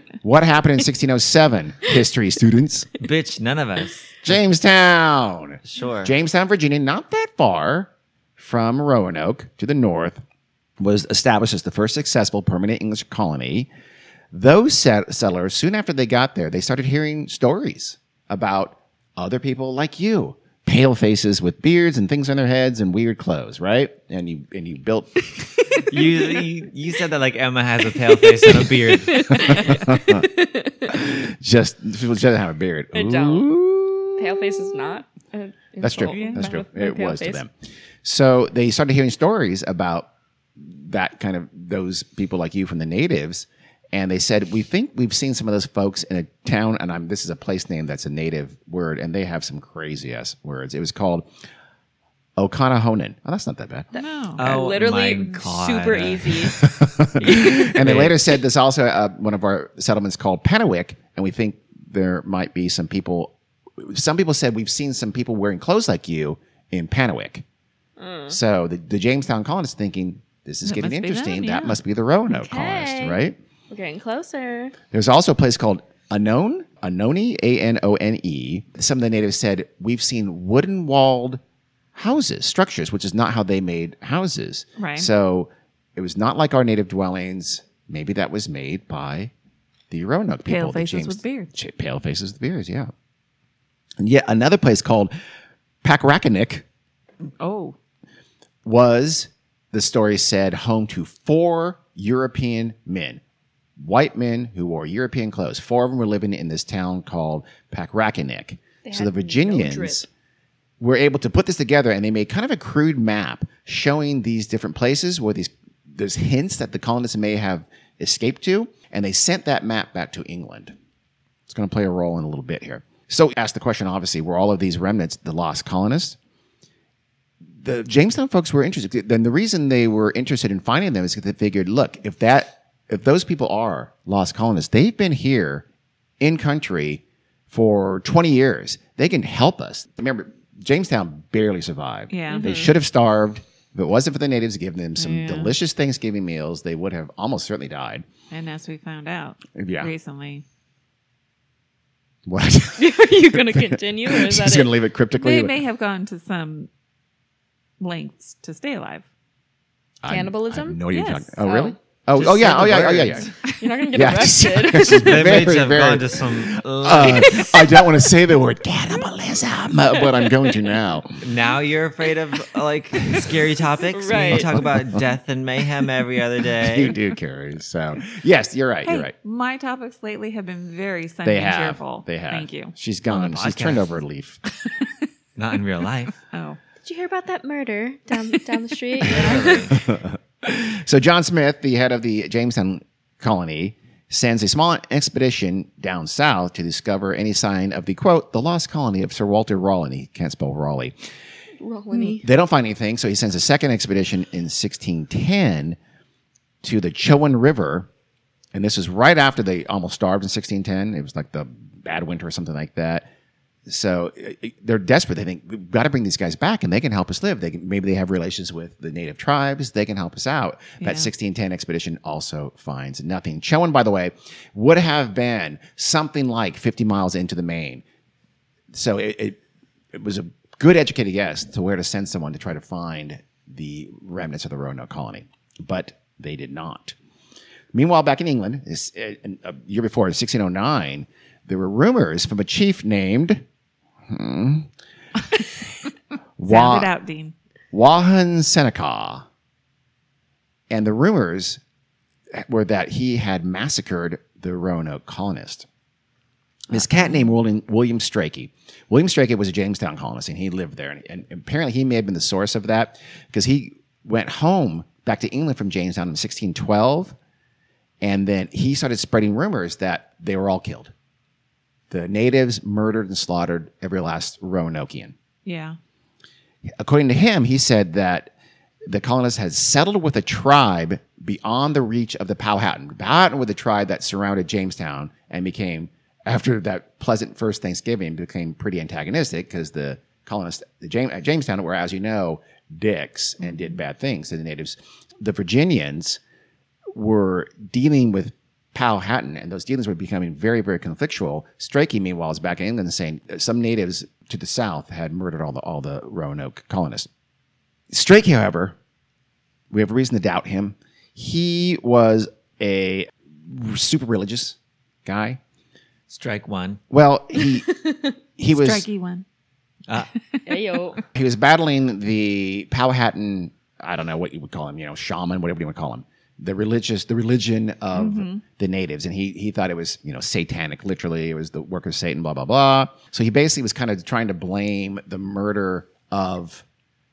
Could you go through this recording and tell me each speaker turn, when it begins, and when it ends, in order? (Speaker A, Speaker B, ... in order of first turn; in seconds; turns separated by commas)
Speaker A: 0.2-2.9, Speaker B: 3.0-4.3, Speaker A: 4.2-10.2, Speaker B: 5.6-6.1, Speaker A: 10.8-13.7, Speaker A: 14.3-25.3, Speaker C: 25.4-26.4, Speaker B: 25.9-29.9, Speaker C: 28.3-31.0, Speaker A: 29.4-30.2, Speaker A: 30.9-34.7, Speaker C: 32.9-33.5, Speaker C: 34.2-37.4, Speaker A: 35.8-37.5, Speaker D: 36.1-36.5, Speaker A: 38.0-51.3, Speaker A: 52.4-53.9, Speaker D: 53.9-54.4, Speaker C: 54.0-56.6, Speaker B: 54.4-56.6, Speaker A: 56.6-67.4, Speaker C: 57.2-57.8, Speaker B: 57.2-58.1, Speaker C: 68.0-68.4, Speaker A: 68.3-73.4, Speaker D: 70.6-71.8, Speaker C: 72.3-74.8, Speaker A: 74.9-81.4, Speaker A: 81.9-89.3, Speaker D: 84.8-85.1, Speaker A: 89.9-92.9, Speaker D: 90.4-91.5, Speaker A: 94.0-95.1, Speaker A: 95.8-96.7, Speaker D: 97.4-97.8, Speaker A: 98.6-103.2, Speaker A: 103.8-110.1, Speaker C: 108.8-110.0, Speaker A: 110.8-120.7, Speaker A: 121.5-126.2, Speaker A: 127.6-135.6, Speaker A: 136.2-148.0, Speaker D: 142.1-142.5, Speaker C: 142.3-142.7, Speaker D: 145.0-145.5, Speaker D: 148.3-150.4, Speaker A: 149.5-149.9, Speaker A: 152.2-155.6, Speaker C: 152.8-154.7, Speaker D: 155.2-156.7, Speaker D: 157.8-159.1, Speaker A: 160.0-163.3, Speaker C: 160.1-160.8, Speaker D: 160.9-161.3, Speaker C: 161.4-161.8, Speaker B: 162.1-163.3, Speaker C: 163.6-165.3, Speaker A: 163.9-171.2, Speaker B: 164.7-167.6, Speaker C: 167.0-167.6, Speaker C: 169.9-170.8, Speaker B: 171.2-176.9, Speaker C: 173.9-174.6, Speaker A: 174.1-175.0, Speaker A: 176.6-179.1, Speaker D: 178.8-182.7, Speaker A: 181.2-184.4, Speaker B: 183.1-183.9, Speaker B: 185.3-186.2, Speaker D: 186.3-186.6, Speaker C: 186.8-189.7, Speaker B: 189.0-189.8, Speaker A: 189.7-200.9, Speaker C: 201.6-202.2, Speaker A: 202.2-205.8, Speaker A: 206.6-207.9, Speaker A: 208.5-213.1, Speaker A: 213.7-227.8, Speaker D: 220.8-221.1, Speaker A: 228.7-229.4, Speaker A: 229.9-236.9, Speaker A: 237.7-243.4, Speaker A: 244.1-244.7, Speaker A: 246.4-246.9, Speaker D: 246.4-247.3, Speaker A: 247.7-249.2, Speaker A: 250.7-251.6, Speaker A: 252.3-255.7, Speaker A: 256.7-267.1, Speaker D: 256.7-257.3, Speaker A: 268.0-270.9, Speaker A: 271.9-275.1, Speaker D: 275.4-275.8, Speaker A: 276.8-278.3, Speaker A: 278.9-296.2, Speaker A: 296.9-307.1, Speaker A: 307.9-308.8, Speaker A: 309.7-315.4, Speaker B: 316.1-316.8, Speaker A: 316.9-317.7, Speaker C: 317.7-318.1, Speaker A: 318.4-318.8, Speaker D: 318.5-319.2, Speaker D: 320.3-321.0, Speaker C: 320.5-321.0, Speaker A: 321.1-336.6, Speaker D: 327.9-328.4